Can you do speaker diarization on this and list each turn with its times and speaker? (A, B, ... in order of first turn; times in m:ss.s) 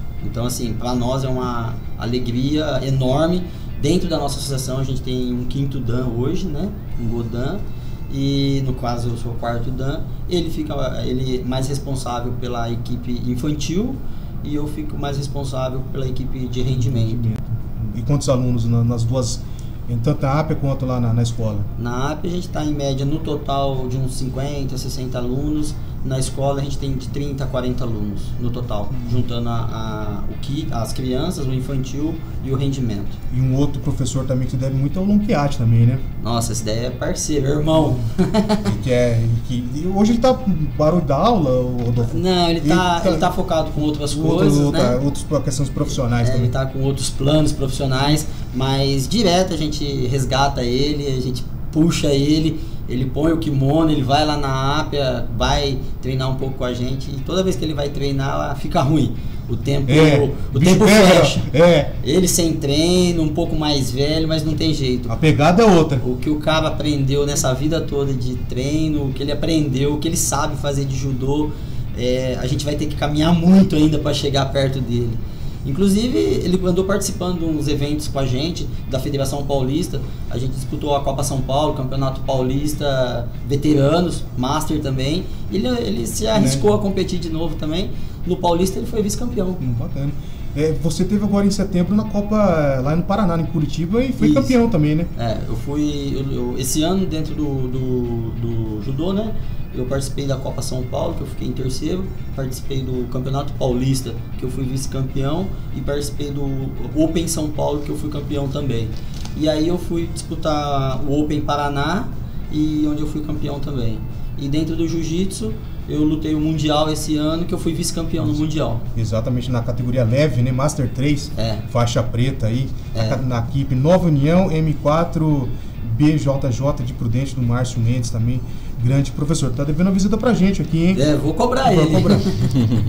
0:00.2-0:17.2 A
0:16.7-0:21.7 B
0:21.8-0:33.2 A
0:33.3-0:36.0 B
0:36.2-0:38.7 A
0:38.6-0:43.3 B
0:42.0-0:45.0 A
0:44.1-0:46.5 B
0:46.2-1:01.5 A
0:59.9-1:02.0 B
1:02.0-1:05.1 A
1:05.1-1:06.0 B
1:06.0-1:29.6 A
1:26.4-1:26.6 B
1:29.6-1:35.1 B
1:34.2-1:34.6 A
1:35.2-1:58.8 A
1:58.9-2:11.0 B
2:01.4-2:01.6 A
2:02.9-2:03.2 A
2:10.9-2:12.6 A
2:11.6-2:12.4 B